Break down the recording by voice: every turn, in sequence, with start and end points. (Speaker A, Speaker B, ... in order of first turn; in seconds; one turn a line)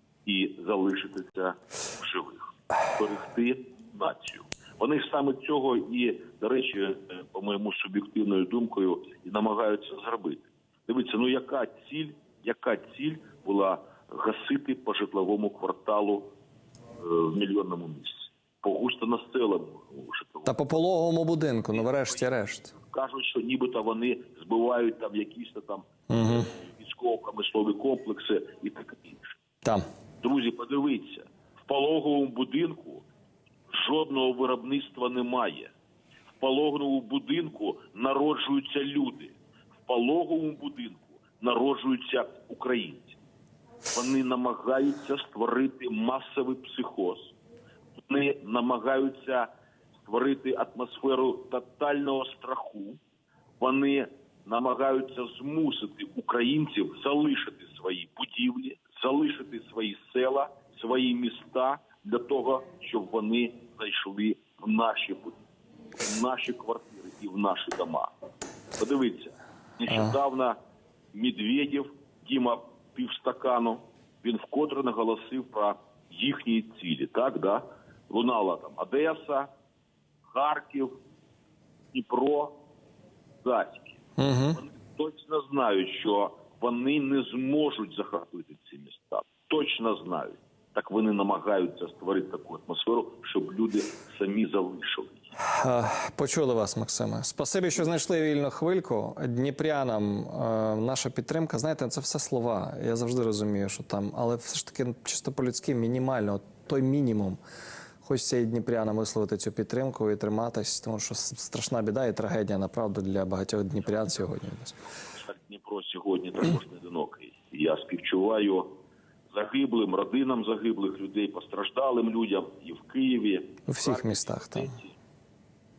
Speaker A: 0.2-16.3
Speaker A: 17.0-20.6
Speaker B: 20.4-22.7
Speaker A: 21.7-29.4
Speaker B: 26.1-26.5
Speaker A: 30.2-33.0
Speaker A: 33.7-35.7
Speaker A: 36.4-39.3
Speaker A: 39.9-43.2
Speaker A: 43.9-47.3
Speaker A: 48.0-49.5
Speaker A: 50.0-53.0
Speaker A: 53.6-65.4
Speaker A: 66.0-68.1
Speaker A: 68.8-70.5
Speaker B: 69.9-70.1
Speaker A: 71.1-79.5
Speaker A: 80.3-80.9
Speaker A: 81.9-82.6
Speaker A: 83.4-84.0
Speaker B: 84.2-84.6
Speaker A: 84.5-95.3
Speaker B: 95.5-107.4
Speaker B: 108.0-114.8
Speaker A: 114.9-118.7
Speaker A: 119.3-124.9
Speaker B: 123.7-124.7